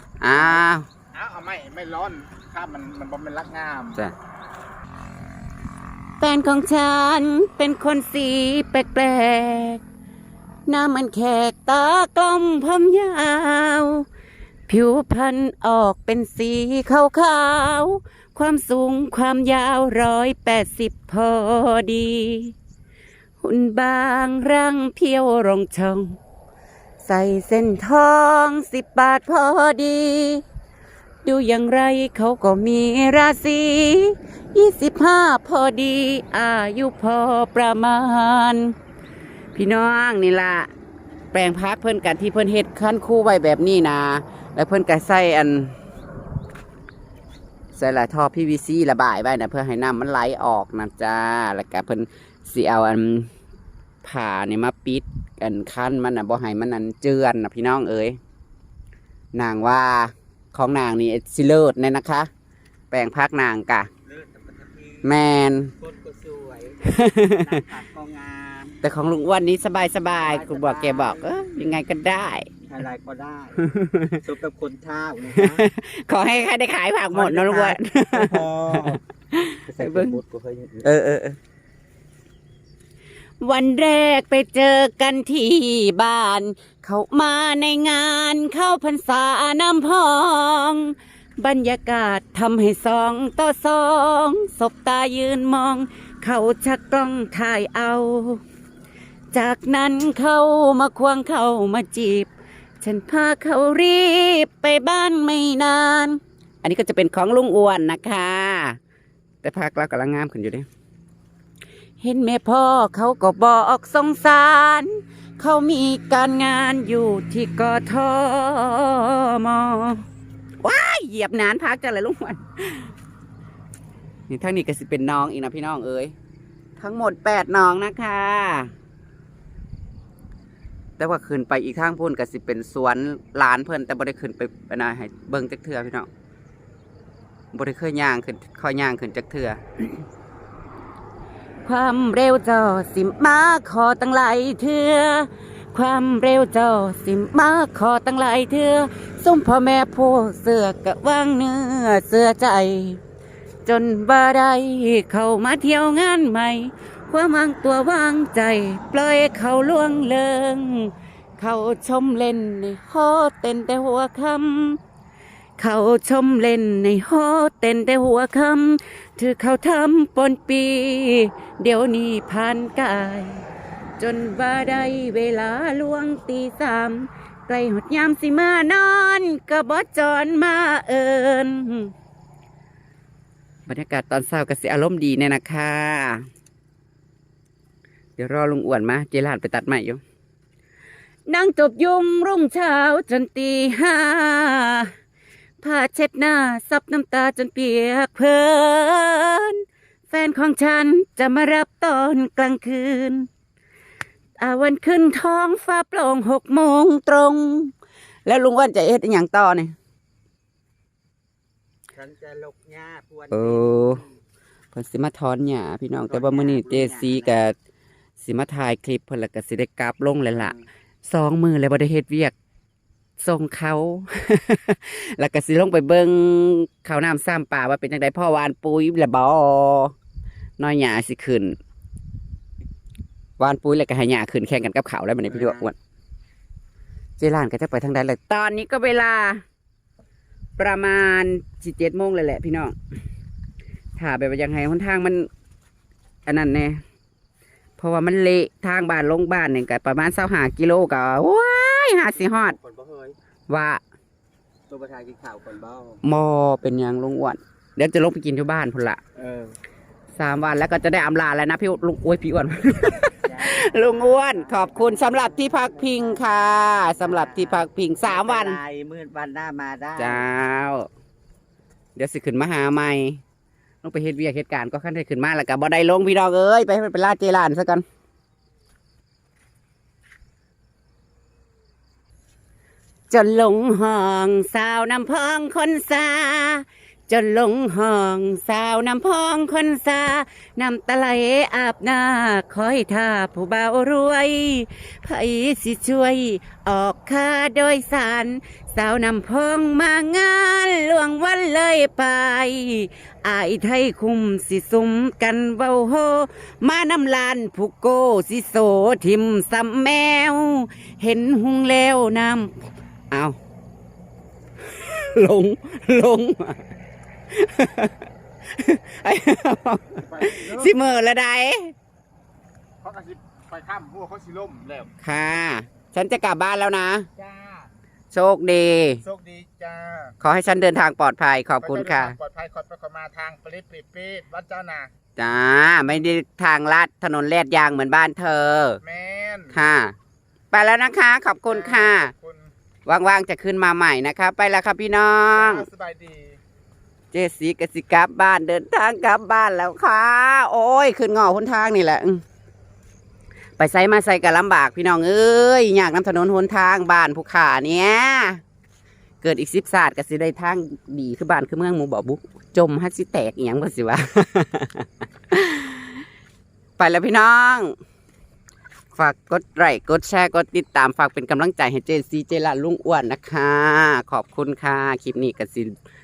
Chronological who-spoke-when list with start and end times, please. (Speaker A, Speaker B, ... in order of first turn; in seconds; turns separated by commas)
Speaker A: 0.2-0.9, Speaker B: 1.1-4.0, Speaker A: 6.2-9.8, Speaker A: 10.7-14.1, Speaker A: 14.7-22.5, Speaker A: 23.4-26.2, Speaker A: 27.0-30.4, Speaker A: 31.2-38.7, Speaker A: 39.5-40.7, Speaker A: 41.3-45.7, Speaker A: 47.7-53.3, Speaker A: 54.0-58.2, Speaker A: 59.3-62.3, Speaker A: 62.9-63.9, Speaker C: 64.0-65.2, Speaker A: 65.0-65.7, Speaker C: 65.8-68.8, Speaker A: 66.8-67.5, Speaker A: 68.8-72.5, Speaker C: 70.1-71.5, Speaker C: 72.7-73.7, Speaker A: 73.6-74.2, Speaker C: 74.2-75.7, Speaker A: 75.3-80.2, Speaker C: 77.1-79.0, Speaker C: 79.7-80.9, Speaker A: 80.8-81.4, Speaker A: 83.4-98.4, Speaker A: 99.3-102.3, Speaker A: 102.8-108.8, Speaker A: 109.4-110.7, Speaker A: 112.0-120.0, Speaker A: 120.6-122.9, Speaker A: 124.3-126.1, Speaker A: 126.8-128.7, Speaker A: 131.0-136.1, Speaker A: 137.5-139.9, Speaker A: 141.6-153.0, Speaker A: 153.6-164.8, Speaker A: 165.6-173.4, Speaker A: 174.0-181.9, Speaker A: 183.7-186.3, Speaker A: 188.2-190.0, Speaker A: 191.3-194.9, Speaker A: 195.6-203.3, Speaker A: 204.4-207.7, Speaker A: 208.2-209.7, Speaker C: 211.9-214.2, Speaker A: 213.3-214.0, Speaker A: 214.7-217.5, Speaker C: 216.1-217.4, Speaker A: 218.2-222.3, Speaker A: 223.2-229.9, Speaker A: 230.6-231.6, Speaker A: 233.4-235.7, Speaker C: 235.3-235.7, Speaker A: 237.2-239.4, Speaker A: 240.6-242.7, Speaker A: 244.0-245.3, Speaker A: 246.2-246.8, Speaker A: 247.8-252.6, Speaker C: 252.1-253.2, Speaker A: 253.5-253.8, Speaker C: 254.7-256.0, Speaker A: 256.0-259.0, Speaker C: 259.1-259.6, Speaker A: 260.1-268.6, Speaker C: 263.2-270.2, Speaker A: 270.0-270.9, Speaker A: 271.9-273.2, Speaker A: 273.8-277.8, Speaker A: 283.1-312.5, Speaker A: 313.1-313.4, Speaker A: 314.6-316.6, Speaker A: 317.3-321.7, Speaker B: 320.1-320.7, Speaker B: 322.8-324.9, Speaker A: 325.0-327.1, Speaker B: 327.2-327.7, Speaker A: 328.1-329.0, Speaker B: 329.0-330.1, Speaker A: 330.2-332.2, Speaker B: 331.6-334.9, Speaker A: 335.2-338.8, Speaker B: 338.8-339.6, Speaker A: 339.5-339.9, Speaker A: 340.5-342.1, Speaker B: 341.5-342.5, Speaker A: 342.9-345.7, Speaker B: 345.3-346.4, Speaker A: 347.1-352.2, Speaker A: 353.6-358.4, Speaker A: 359.2-366.1, Speaker A: 366.8-367.7, Speaker A: 368.9-375.7